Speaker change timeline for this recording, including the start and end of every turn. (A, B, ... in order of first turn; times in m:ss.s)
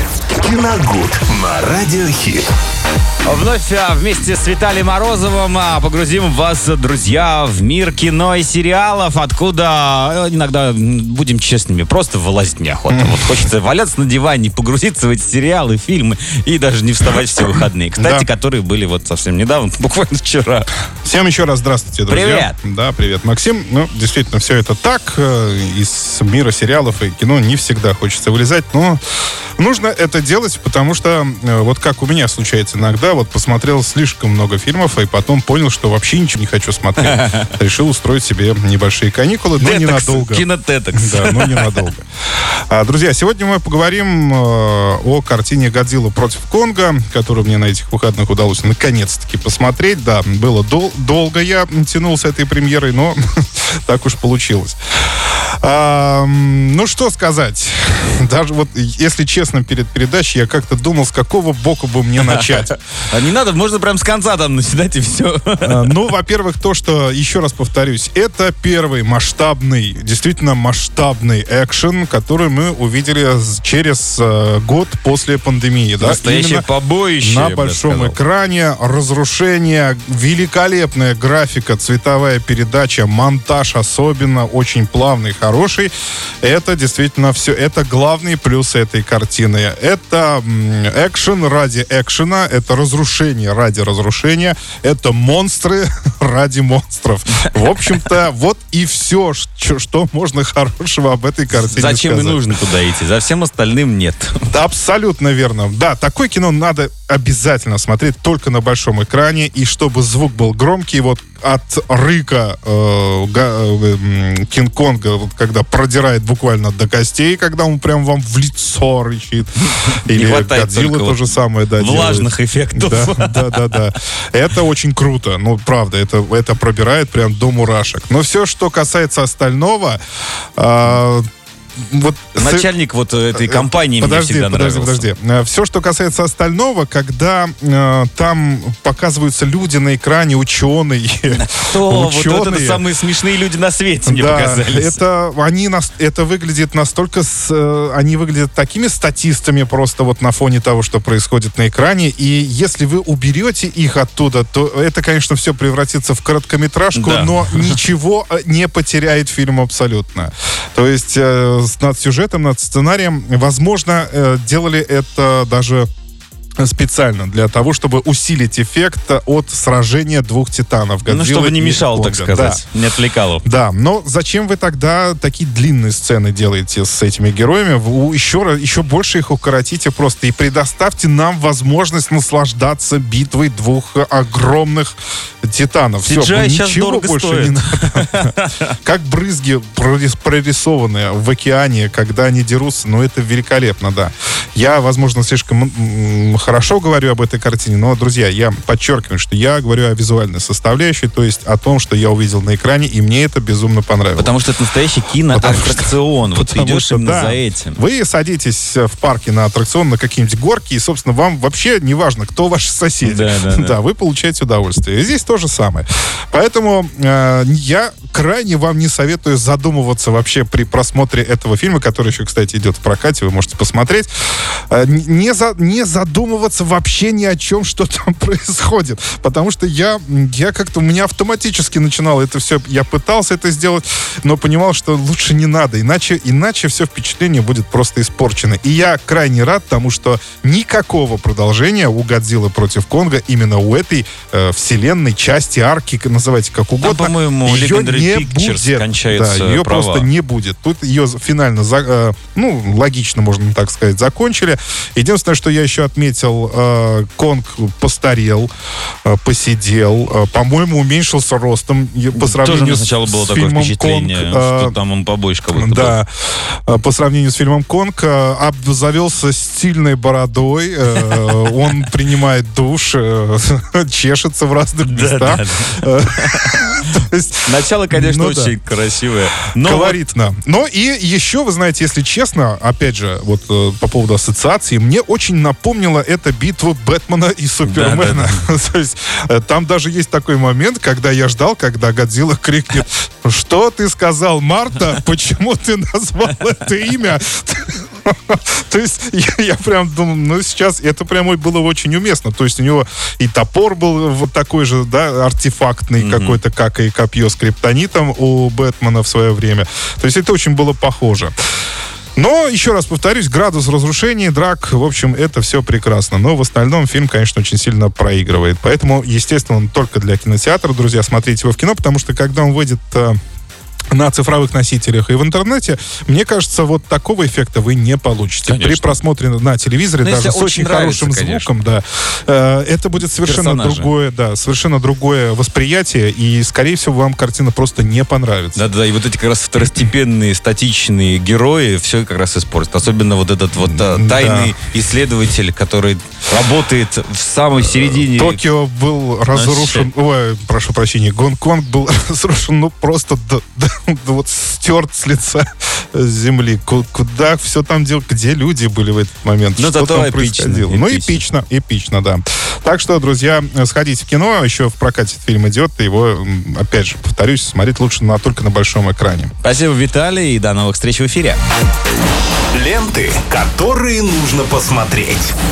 0:00.4-0:02.5 A
0:03.2-0:20.7 B
0:12.9-0:13.5 C
0:18.0-0:18.3 C
0:21.0-0:29.0 C
0:22.1-0:22.6 B
0:29.6-0:42.0 C
0:37.0-0:37.5 B
0:39.6-0:41.8 B
0:42.7-1:02.8 C
1:02.2-1:05.9 B
1:05.6-1:16.7 C
1:16.0-1:18.2 B
1:17.2-1:25.9 C
1:26.4-1:42.4 C
1:37.5-1:38.0 B
1:41.5-1:44.4 B
1:44.5-2:10.0 C
1:59.7-2:01.2 B
2:01.8-2:03.8 B
2:10.6-2:11.3 C
2:11.8-2:12.7 C
2:12.4-2:15.1 B
2:13.3-2:22.8 C
2:21.3-2:25.0 B
2:24.1-2:45.9 C
2:37.0-2:37.8 B
2:46.6-2:52.6 C
2:51.1-2:53.4 B
2:53.4-3:04.9 C
3:05.4-3:08.3 C
3:06.0-3:08.7 B
3:08.8-3:24.3 C
3:24.2-3:27.8 B
3:25.3-3:44.1 C
3:33.0-3:33.8 B
3:44.7-4:18.5 C
4:06.8-4:10.1 B
4:19.1-4:24.7 C
4:22.2-4:26.0 B
4:25.5-4:38.6 C
4:31.0-4:31.4 B
4:34.8-4:36.6 B
4:37.5-4:40.0 B
4:39.6-5:11.3 C
4:47.6-4:48.3 B
5:06.0-5:06.4 B
5:12.2-5:23.2 C
5:23.9-5:38.7 C
5:28.5-5:29.0 B
5:30.0-5:31.6 B
5:33.0-5:33.9 B
5:38.6-5:48.4 B
5:43.6-5:44.5 C
5:47.6-6:09.3 C
5:49.3-5:49.9 B
5:59.6-6:01.2 B
6:09.4-6:11.4 B
6:12.5-6:15.4 A